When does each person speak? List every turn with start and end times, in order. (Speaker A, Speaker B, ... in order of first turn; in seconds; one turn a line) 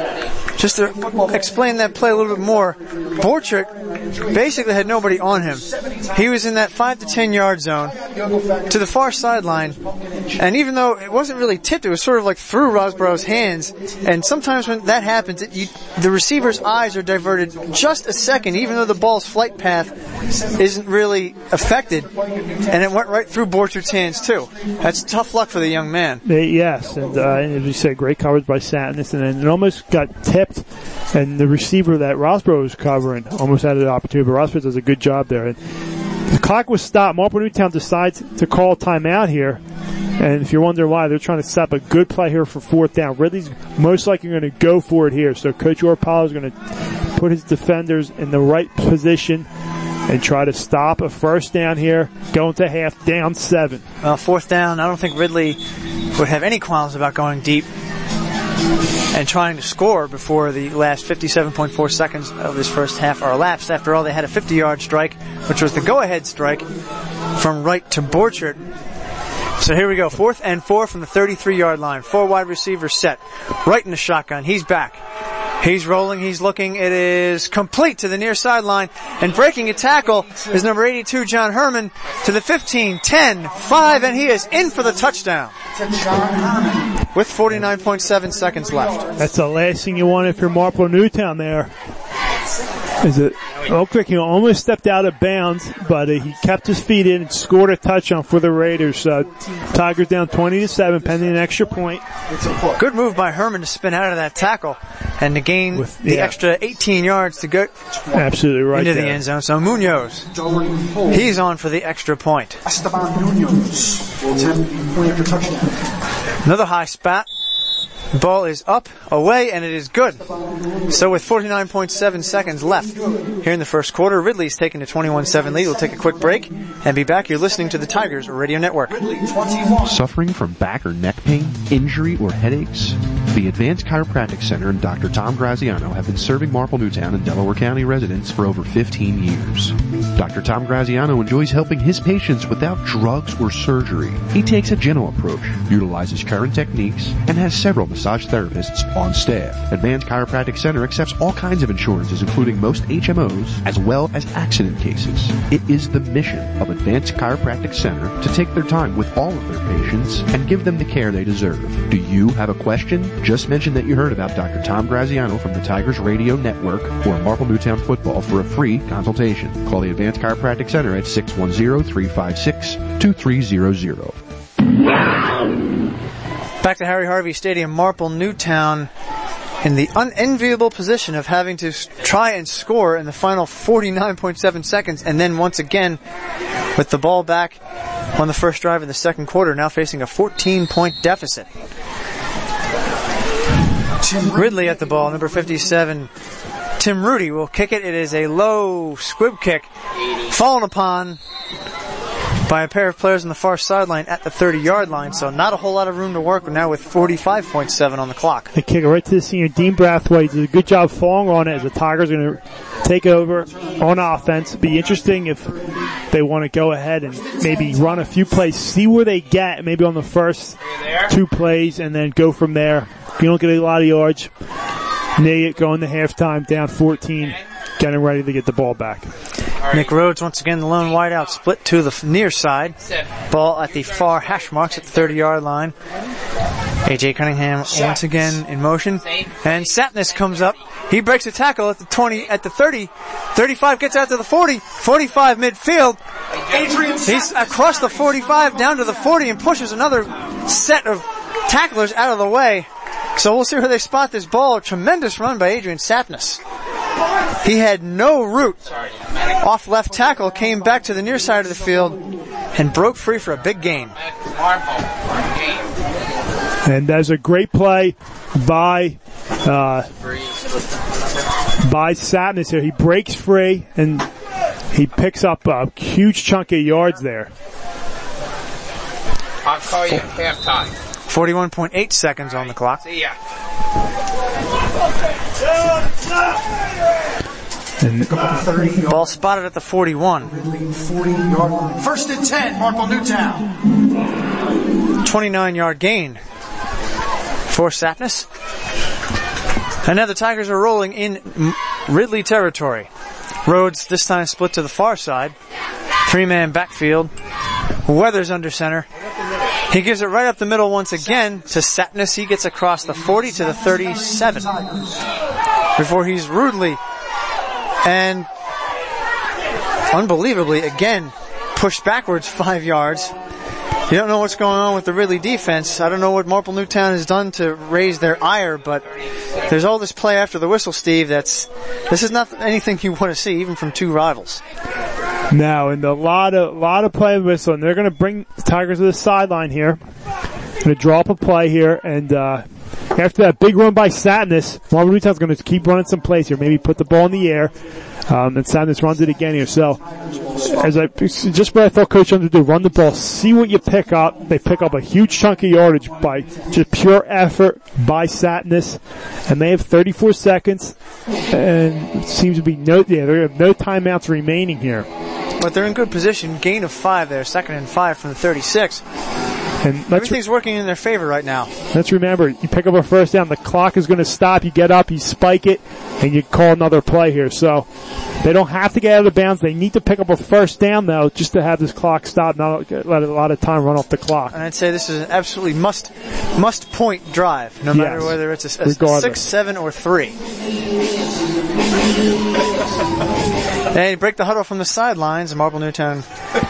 Speaker A: 0.6-3.7
Speaker B: 1.0-1.3
Speaker A: 4.3-8.0
Speaker B: 8.0-8.7
Speaker A: 8.7-9.8
Speaker B: 9.8-10.3
Speaker A: 10.4-19.9
Speaker A: 20.6-22.1
Speaker B: 22.3-22.6
Speaker A: 22.7-26.2
Speaker C: 26.2-35.6
Speaker C: 36.3-39.6
Speaker C: 40.2-46.5
Speaker C: 47.1-49.5
Speaker C: 50.1-53.8
Speaker A: 54.0-55.6
Speaker A: 56.1-57.7
Speaker A: 59.1-66.7
Speaker A: 67.3-68.6
Speaker A: 69.6-75.0
Speaker A: 75.6-85.5
Speaker B: 85.7-87.0
Speaker A: 87.1-89.1
Speaker C: 89.2-91.7
Speaker C: 93.0-102.0
Speaker B: 102.3-102.8
Speaker A: 102.8-107.7
Speaker C: 105.7-106.3
Speaker B: 108.0-108.2
Speaker C: 108.1-109.2
Speaker A: 108.7-110.3
Speaker B: 110.3-111.3
Speaker A: 111.1-112.6
Speaker B: 112.6-115.8
Speaker A: 116.4-117.2
Speaker A: 118.1-120.2
Speaker A: 120.9-129.0
Speaker B: 128.9-129.9
Speaker D: 129.8-174.2
Speaker A: 176.6-178.9
Speaker A: 179.6-186.0
Speaker A: 186.8-187.6
Speaker A: 188.2-191.5
Speaker B: 194.0-195.0
Speaker A: 194.3-196.1
Speaker A: 196.8-199.7
Speaker A: 200.2-201.2
Speaker A: 202.5-208.5
Speaker C: 208.5-215.6
Speaker C: 216.1-224.3
Speaker E: 220.8-221.1
Speaker C: 225.2-229.1
Speaker E: 229.6-229.9
Speaker A: 229.7-232.8
Speaker E: 232.8-235.0
Speaker A: 233.3-235.7
Speaker A: 236.8-246.0
Speaker B: 237.7-238.1
Speaker E: 239.1-240.3
Speaker B: 246.5-248.0
Speaker A: 247.0-256.4
Speaker A: 257.4-258.6
Speaker E: 258.7-259.3
Speaker A: 259.4-262.0
Speaker A: 262.5-263.9
Speaker E: 264.0-265.7
Speaker C: 266.6-269.9
Speaker C: 271.6-274.1
Speaker C: 274.7-277.3
Speaker E: 279.4-280.7
Speaker A: 281.1-282.8
Speaker E: 282.8-283.1
Speaker C: 287.8-288.1
Speaker B: 288.1-289.0
Speaker A: 288.9-290.3
Speaker B: 290.3-293.6
Speaker A: 295.0-296.2
Speaker A: 297.5-298.2
Speaker A: 299.8-302.9
Speaker A: 303.4-305.3
Speaker A: 306.1-307.1
Speaker A: 307.9-308.9
Speaker A: 309.7-314.5
Speaker B: 313.2-315.0
Speaker A: 315.8-316.8
Speaker A: 317.8-318.3
Speaker A: 319.9-323.1
Speaker A: 323.9-328.8
Speaker A: 329.5-334.4
Speaker C: 335.3-339.8
Speaker C: 340.6-342.4
Speaker C: 342.9-347.5
Speaker C: 348.1-349.8
Speaker B: 349.9-350.7
Speaker C: 350.4-360.7
Speaker C: 361.3-364.9
Speaker A: 365.4-368.8
Speaker C: 369.6-370.2
Speaker A: 369.9-371.5
Speaker C: 371.7-377.6
Speaker C: 378.2-384.4
Speaker A: 384.3-390.1
Speaker C: 387.7-389.2
Speaker A: 393.7-396.0